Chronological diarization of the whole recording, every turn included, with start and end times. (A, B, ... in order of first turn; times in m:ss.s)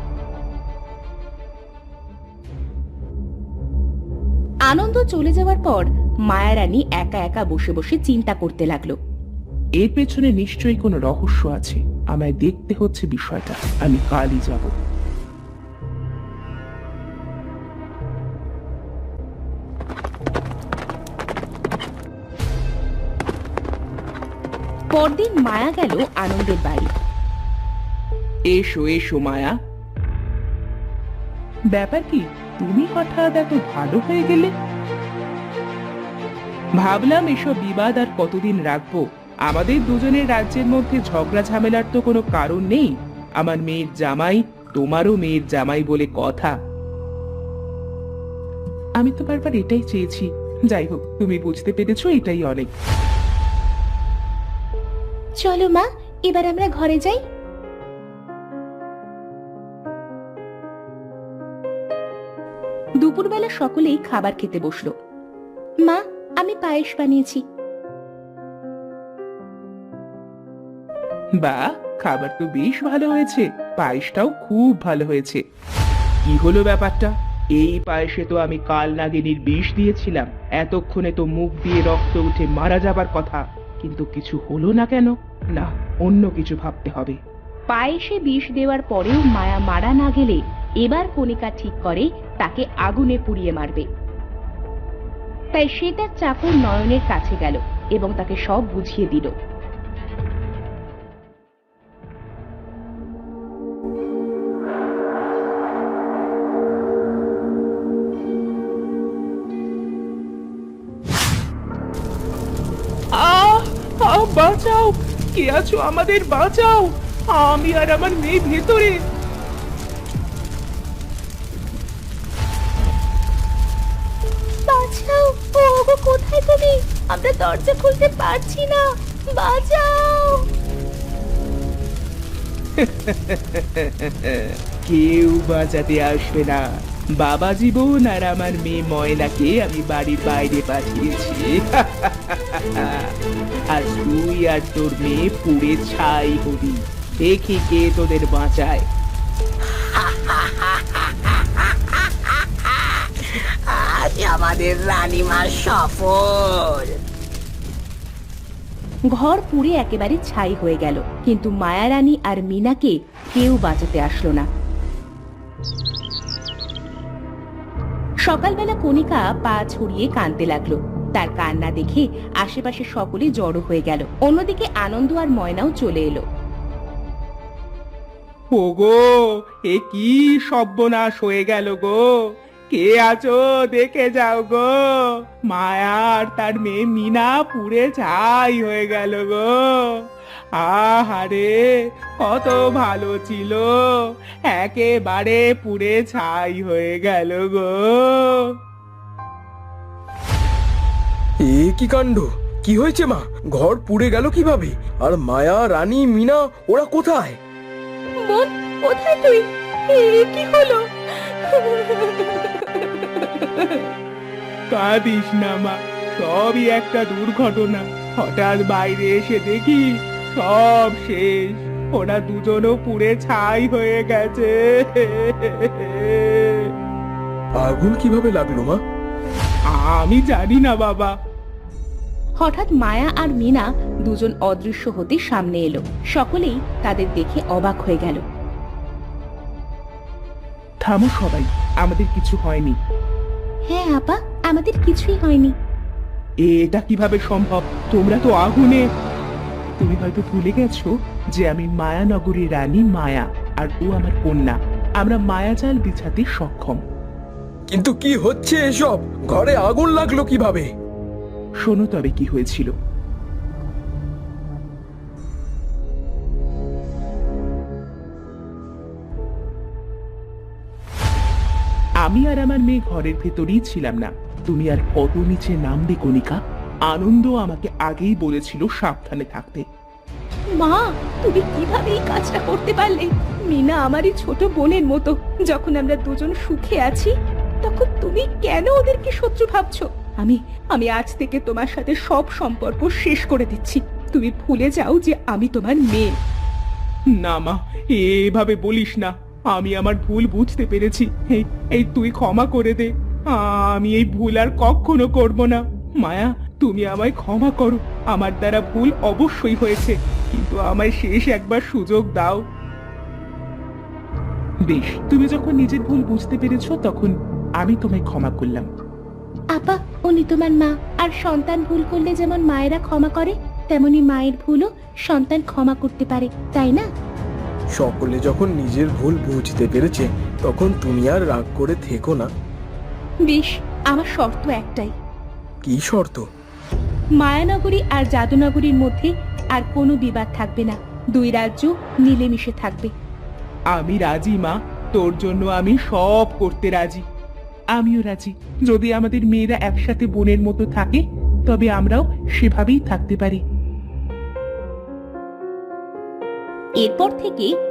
0:04.7-0:09.0 A
0:09.8-0:14.7 B
0:24.9-0:26.9 A
0:28.5-0:29.5 B
0:31.8-0:34.5 B
0:36.8-0:46.5 B
0:49.0-0:52.7 B
0:55.4-0:57.2 A
1:03.0-1:04.9 A
1:05.9-1:07.4 A
1:11.4-1:15.4 B
1:16.3-1:27.2 B
1:27.7-1:33.9 A
1:35.6-1:39.3 A
1:53.2-1:59.0 B
2:04.7-2:10.5 A
2:12.8-2:16.6 B
2:17.2-2:23.1 B
2:23.7-2:28.8 B
2:29.7-2:37.0 C
2:39.1-2:44.5 A
2:48.3-2:56.2 A
2:58.6-3:10.1 B
3:10.6-3:18.5 B
3:21.4-3:27.4 D
3:28.2-3:33.8 A
3:34.7-3:46.7 B
3:47.6-3:48.8 D
3:49.8-3:51.1 B
3:52.4-3:58.2 A
4:00.8-4:02.8 B
4:03.7-4:05.6 A
4:06.5-4:08.8 B
4:09.8-4:16.8 B
4:17.7-4:20.7 D
4:21.6-4:22.7 B
4:32.0-4:39.6 B
4:40.6-4:56.1 A
4:57.2-5:12.4 B
5:14.7-5:18.7 B
5:19.6-5:26.9 A
5:27.8-5:32.3 D
5:33.2-5:34.9 A
5:35.6-5:36.2 D
5:37.2-5:42.9 A
5:43.7-5:47.0 B
5:47.8-5:53.4 B
5:56.8-5:57.5 A